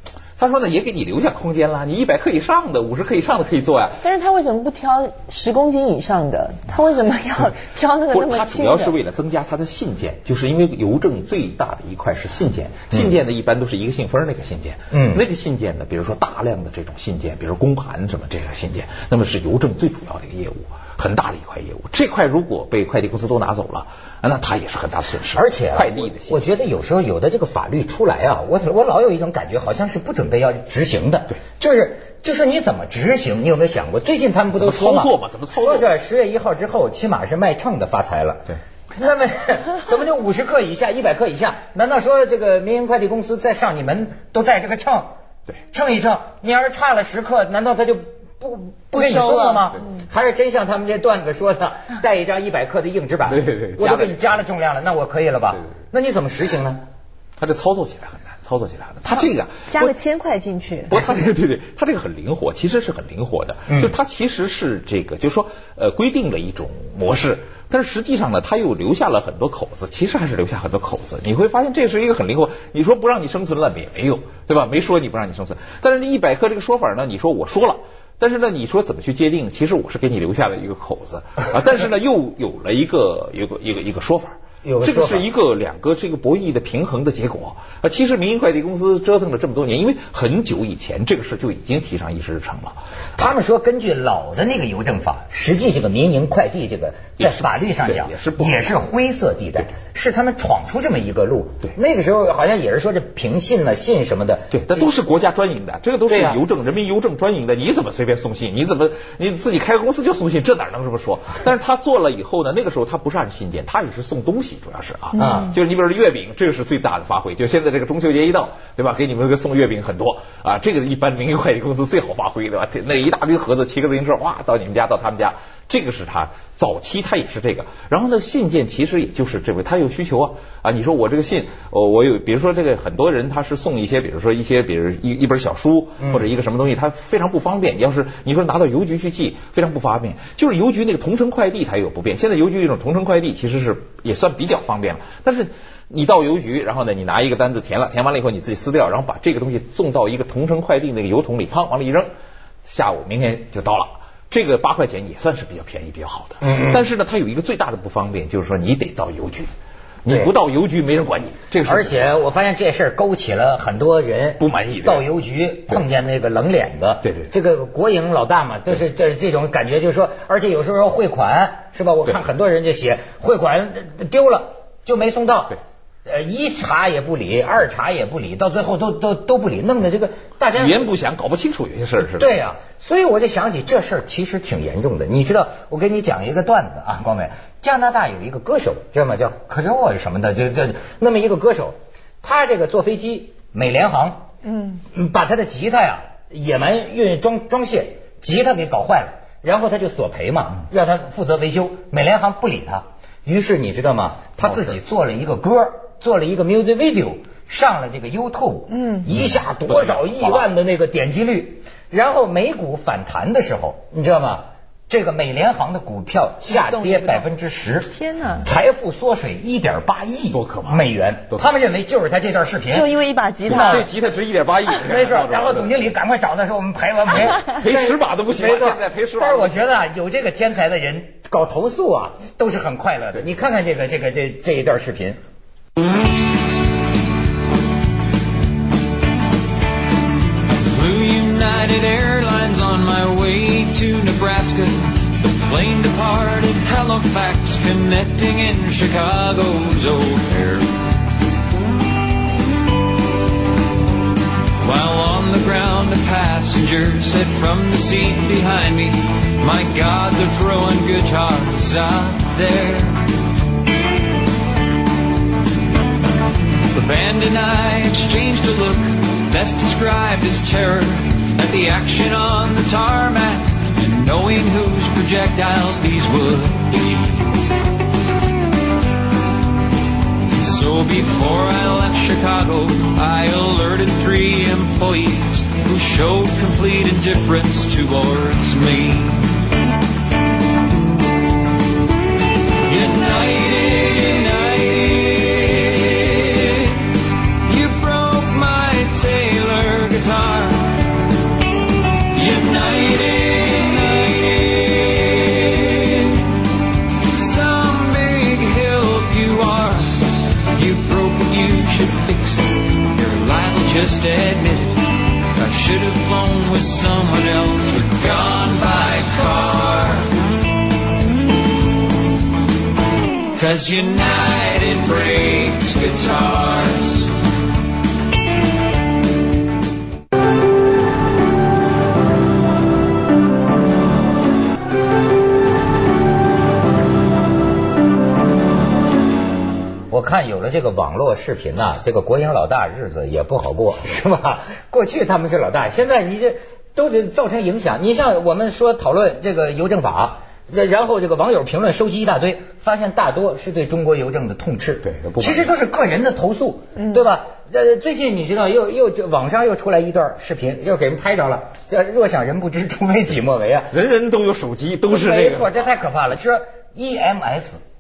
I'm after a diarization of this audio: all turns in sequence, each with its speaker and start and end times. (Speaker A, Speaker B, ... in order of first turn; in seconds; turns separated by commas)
Speaker A: 0.4-4.0, Speaker B: 4.0-8.9, Speaker A: 8.1-26.4, Speaker C: 14.9-15.2, Speaker C: 25.3-45.1, Speaker A: 34.5-35.9, Speaker C: 45.7-56.8, Speaker B: 48.9-49.8, Speaker A: 53.3-54.2, Speaker A: 57.4-59.9, Speaker B: 59.1-61.0, Speaker A: 60.9-92.8, Speaker C: 84.6-85.3, Speaker C: 93.2-104.8, Speaker A: 97.2-98.7, Speaker A: 104.5-152.1, Speaker C: 106.1-106.4, Speaker C: 115.2-115.5, Speaker C: 136.0-136.3, Speaker A: 152.6-159.5, Speaker C: 156.4-156.9, Speaker A: 160.0-162.1, Speaker C: 160.1-160.3, Speaker C: 161.6-180.9, Speaker A: 164.4-165.1, Speaker A: 167.0-167.3, Speaker A: 180.6-182.4, Speaker C: 182.1-194.2, Speaker C: 194.8-222.9, Speaker B: 208.7-209.1, Speaker A: 209.7-210.4, Speaker B: 216.5-217.3, Speaker B: 217.9-218.4, Speaker A: 220.3-220.8, Speaker B: 222.7-223.9, Speaker A: 223.5-225.9, Speaker C: 223.5-223.9, Speaker C: 224.8-235.2, Speaker A: 227.2-229.6, Speaker D: 240.7-250.7, Speaker D: 254.6-263.1, Speaker D: 266.7-277.2, Speaker D: 280.3-289.3, Speaker D: 292.6-296.9, Speaker D: 297.4-300.9, Speaker D: 302.1-306.4, Speaker D: 307.1-320.1, Speaker D: 323.4-327.1, Speaker C: 339.9-363.7, Speaker A: 354.8-355.6, Speaker B: 356.8-357.0, Speaker A: 363.7-365.5, Speaker C: 364.9-367.6